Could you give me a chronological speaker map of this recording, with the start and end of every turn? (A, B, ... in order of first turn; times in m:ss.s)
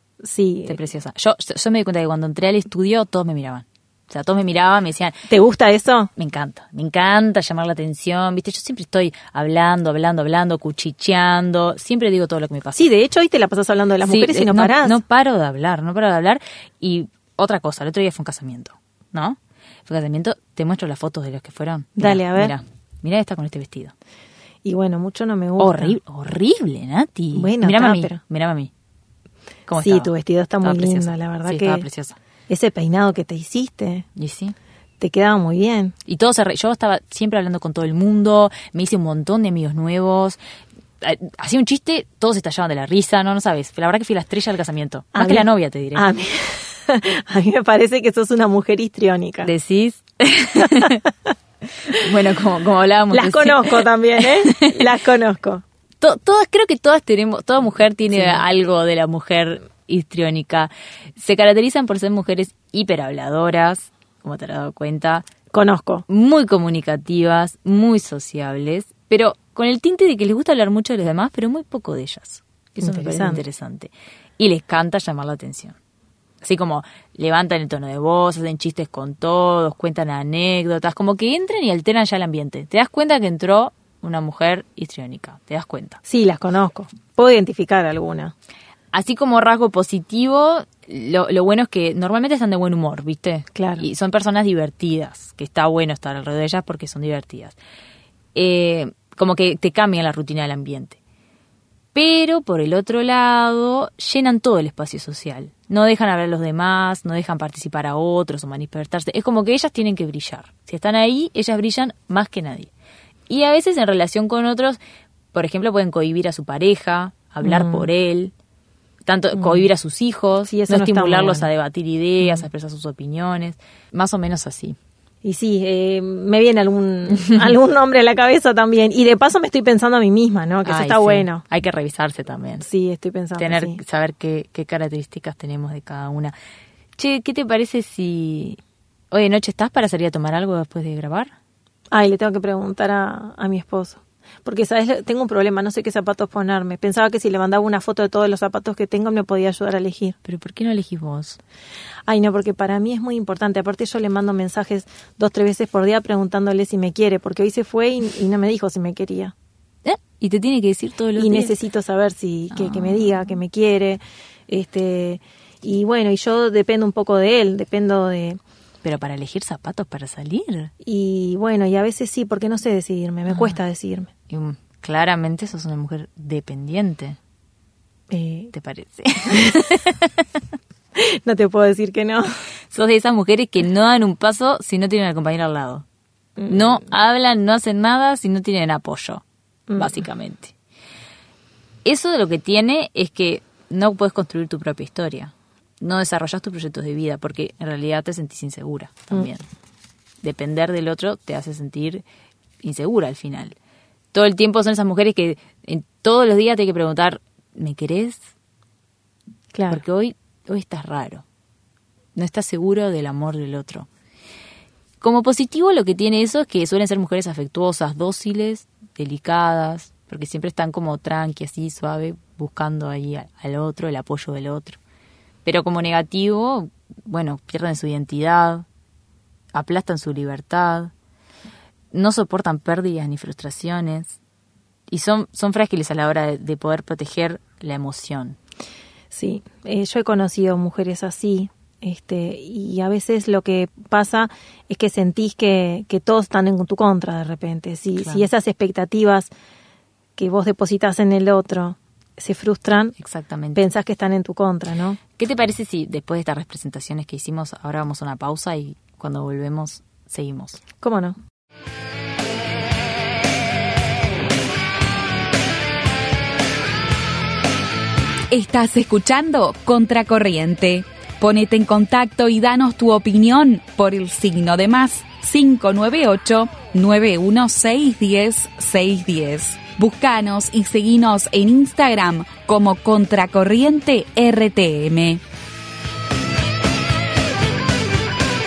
0:00.2-0:00.8 A
0:00.7-0:05.2 B
0:05.3-0:06.1 A
0:06.2-0:12.8 B
0:12.7-0:15.0 A
0:14.0-0:23.9 B
0:22.0-0:22.5 A
0:24.6-0:26.0 A
0:25.6-0:28.7 B
0:27.3-0:28.2 A
0:29.7-0:32.2 B
0:29.8-0:31.9 A
0:32.5-0:34.0 A
0:34.2-0:34.6 B
0:35.0-0:35.9 A
0:36.1-0:40.4 B
0:41.0-0:46.0 B
0:45.2-0:49.5 A
0:49.4-0:51.0 B
0:50.6-0:50.9 A
0:51.9-0:53.8 B
0:53.1-0:55.6 A
0:54.4-0:54.7 B
0:56.0-1:05.3 B
0:58.1-0:58.4 A
1:05.5-1:06.0 A
1:06.1-1:15.8 B
1:12.8-1:13.4 A
1:16.4-1:26.0 B
1:26.0-1:28.3 A
1:28.9-1:37.6 B
1:33.6-1:33.8 A
1:38.3-1:41.0 B
1:41.9-1:52.7 B
1:53.3-1:54.8 B
1:55.3-1:58.3 B
1:57.4-1:57.9 A
1:59.0-2:04.8 B
1:59.4-1:59.6 A
2:00.5-2:01.5 A
2:05.2-2:11.4 A
2:10.6-2:12.7 B
2:12.6-2:13.8 A
2:13.4-2:16.3 B
2:17.0-2:18.6 B
2:19.1-2:21.3 B
2:21.9-2:30.2 A
2:30.2-2:31.4 B
2:32.1-2:39.3 A
2:39.8-2:41.5 B
2:41.2-2:48.4 A
2:42.5-2:43.2 B
2:48.8-2:50.7 B
2:50.8-2:54.1 A
2:53.3-2:53.6 B
2:54.3-2:57.2 B
2:58.1-2:58.5 A
2:58.5-3:00.2 B
3:01.0-3:02.4 A
3:02.7-3:05.8 B
3:06.4-3:06.8 A
3:06.5-3:09.2 B
3:09.7-3:10.0 A
3:09.8-3:10.5 B
3:11.8-3:19.4 B
3:20.2-3:22.0 B
3:22.6-3:23.6 B
3:24.1-3:28.2 B
3:29.5-3:29.8 A
3:29.7-3:31.2 B
3:32.2-3:33.9 B
3:35.0-3:44.8 B
3:45.4-3:48.7 B
3:49.5-3:50.9 B
3:51.9-3:54.2 B
3:54.9-3:58.4 B
3:59.1-4:09.3 A
4:08.0-4:08.3 B
4:10.2-4:13.0 A
4:13.0-4:13.6 B
4:13.6-4:15.0 A
4:15.2-4:20.6 B
4:20.8-4:21.2 A
4:28.3-4:45.2 C